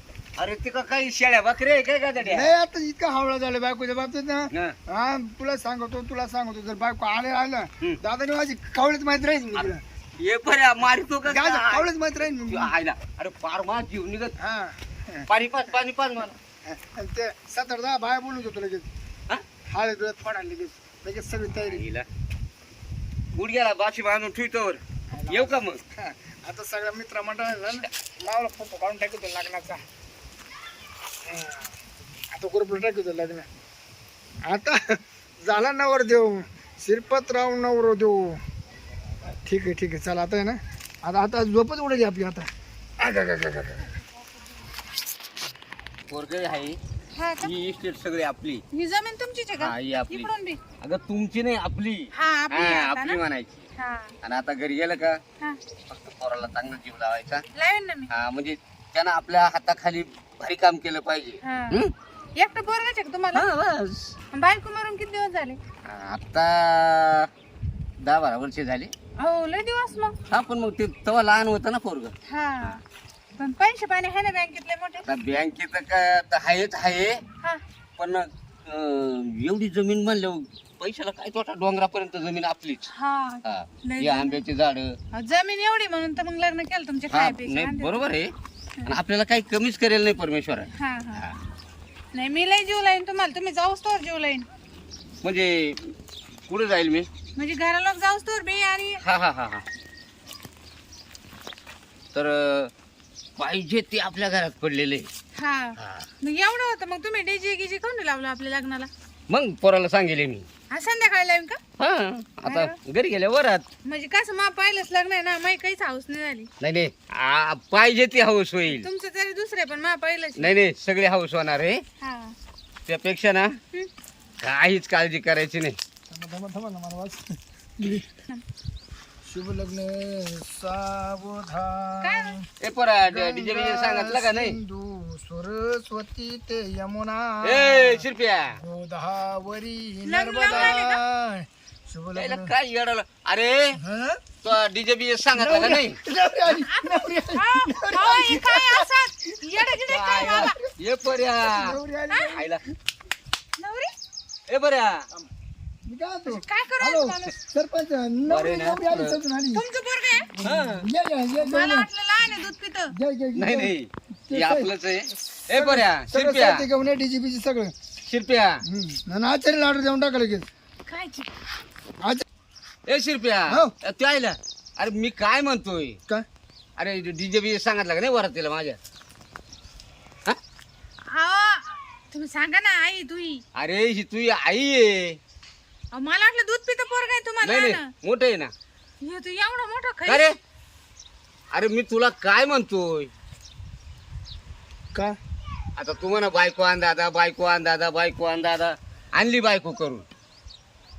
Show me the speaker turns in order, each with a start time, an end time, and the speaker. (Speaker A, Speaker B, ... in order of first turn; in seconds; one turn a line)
Speaker A: 0.4-2.5
Speaker B: 2.2-9.8
Speaker A: 9.6-14.3
Speaker B: 11.2-12.7
Speaker B: 14.4-15.3
Speaker A: 15.3-16.4
Speaker B: 16.7-18.9
Speaker B: 19.7-21.8
Speaker A: 21.5-22.1
Speaker A: 23.3-25.8
Speaker B: 25.1-29.8
Speaker B: 31.3-31.7
Speaker B: 32.3-33.5
Speaker B: 34.5-38.4
Speaker B: 39.4-43.8
Speaker A: 46.1-46.8
Speaker C: 47.1-47.5
Speaker A: 47.4-48.6
Speaker C: 48.7-50.6
Speaker A: 49.6-50.3
Speaker A: 50.8-53.7
Speaker C: 52.1-53.2
Speaker C: 53.8-54.1
Speaker A: 54.2-55.2
Speaker A: 55.9-57.5
Speaker C: 57.5-58.1
Speaker A: 58.1-61.9
Speaker C: 61.4-61.8
Speaker C: 62.4-63.5
Speaker A: 63.3-64.2
Speaker C: 64.3-65.6
Speaker A: 65.8-67.3
Speaker A: 68.0-68.9
Speaker C: 69.2-70.2
Speaker A: 70.3-72.8
Speaker C: 72.3-72.8
Speaker C: 73.4-75.1
Speaker A: 75.1-77.2
Speaker A: 78.0-82.9
Speaker C: 82.9-84.4
Speaker A: 83.5-85.0
Speaker C: 85.1-88.1
Speaker A: 87.1-88.3
Speaker A: 88.9-91.4
Speaker C: 90.8-91.3
Speaker C: 92.1-94.5
Speaker A: 95.2-95.9
Speaker A: 96.5-97.1
Speaker C: 97.4-99.0
Speaker A: 99.0-99.7
Speaker A: 102.1-102.7
Speaker A: 103.4-105.1
Speaker C: 105.4-108.9
Speaker A: 105.8-106.1
Speaker A: 109.3-110.5
Speaker C: 110.7-111.6
Speaker A: 111.8-113.7
Speaker C: 112.5-112.8
Speaker C: 113.8-116.5
Speaker A: 116.6-118.9
Speaker C: 118.7-120.6
Speaker A: 120.4-121.8
Speaker C: 122.0-122.3
Speaker A: 122.9-123.6
Speaker A: 124.4-125.8
Speaker B: 126.1-128.1
Speaker B: 129.2-132.4
Speaker C: 132.0-132.4
Speaker A: 132.6-134.6
Speaker B: 133.1-142.5
Speaker A: 137.4-138.6
Speaker C: 140.1-141.0
Speaker A: 140.4-140.8
Speaker A: 142.2-143.8
Speaker B: 143.8-144.2
Speaker A: 144.4-146.0
Speaker B: 145.4-148.9
Speaker C: 146.6-150.6
Speaker B: 149.6-150.6
Speaker A: 149.9-151.8
Speaker B: 151.4-152.5
Speaker C: 152.1-152.4
Speaker A: 152.3-152.6
Speaker C: 153.6-153.9
Speaker A: 154.5-155.1
Speaker B: 155.8-159.6
Speaker C: 156.3-157.4
Speaker A: 158.3-159.2
Speaker C: 159.5-160.3
Speaker B: 160.4-161.9
Speaker A: 160.4-160.9
Speaker C: 161.4-162.9
Speaker B: 162.9-163.7
Speaker A: 163.4-166.7
Speaker B: 164.3-164.7
Speaker B: 165.5-167.7
Speaker A: 168.0-168.6
Speaker B: 168.7-170.5
Speaker C: 170.9-171.3
Speaker A: 172.9-176.0
Speaker B: 173.5-173.7
Speaker A: 176.8-178.8
Speaker C: 181.1-183.4
Speaker A: 183.6-185.2
Speaker C: 185.9-187.9
Speaker A: 187.4-188.5
Speaker C: 189.0-190.3
Speaker A: 190.1-190.4
Speaker A: 191.5-193.1
Speaker A: 195.8-200.1